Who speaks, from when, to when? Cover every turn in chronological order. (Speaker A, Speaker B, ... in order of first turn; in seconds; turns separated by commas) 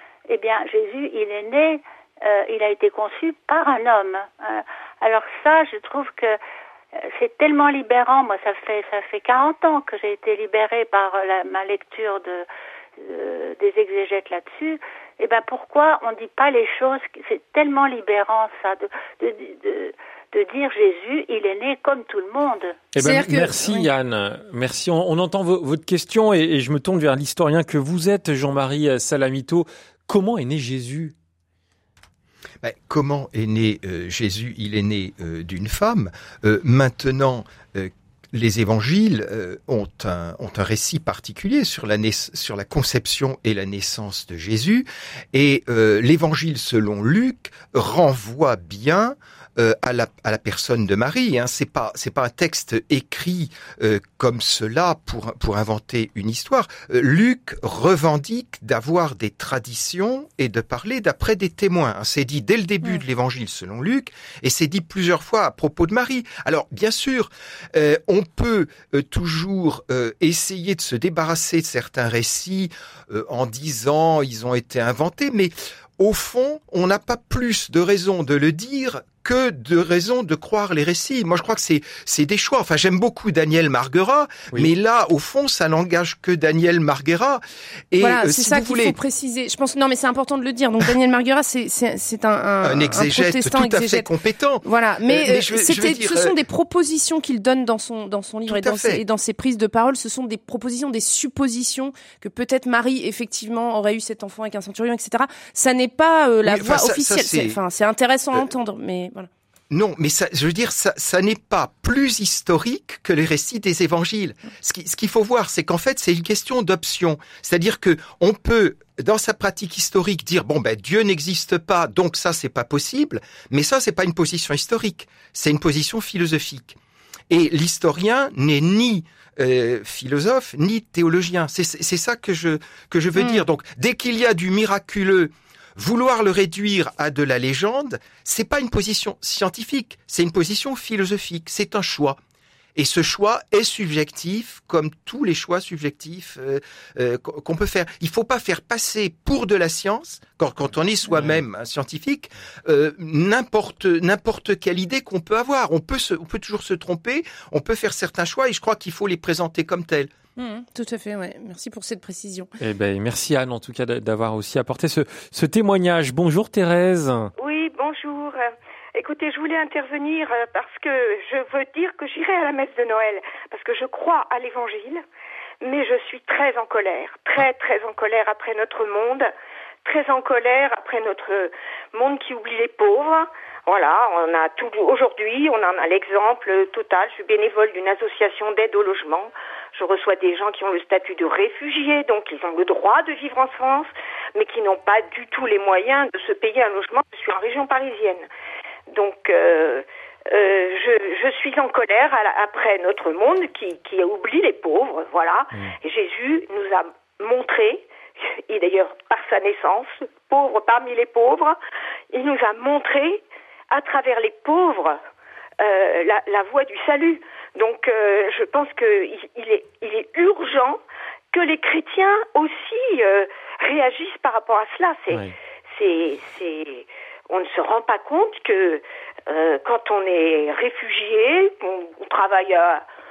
Speaker A: 0.3-6.4, Speaker A: 7.0-12.4, Speaker A: 13.0-22.8, Speaker B: 22.9-31.1, Speaker C: 23.0-23.9, Speaker D: 32.6-89.0, Speaker C: 88.0-94.1, Speaker D: 92.6-96.3, Speaker C: 94.6-109.3, Speaker D: 98.5-99.0, Speaker D: 106.4-107.6, Speaker D: 109.7-126.8, Speaker D: 127.3-142.2, Speaker C: 133.2-133.4, Speaker D: 142.8-160.1, Speaker C: 160.4-162.5, Speaker B: 162.6-167.3, Speaker E: 167.4-175.0, Speaker E: 175.6-179.3, Speaker E: 179.8-198.3, Speaker E: 198.9-207.9, Speaker E: 208.5-211.6, Speaker E: 212.1-215.0, Speaker E: 215.6-220.8, Speaker E: 221.3-232.8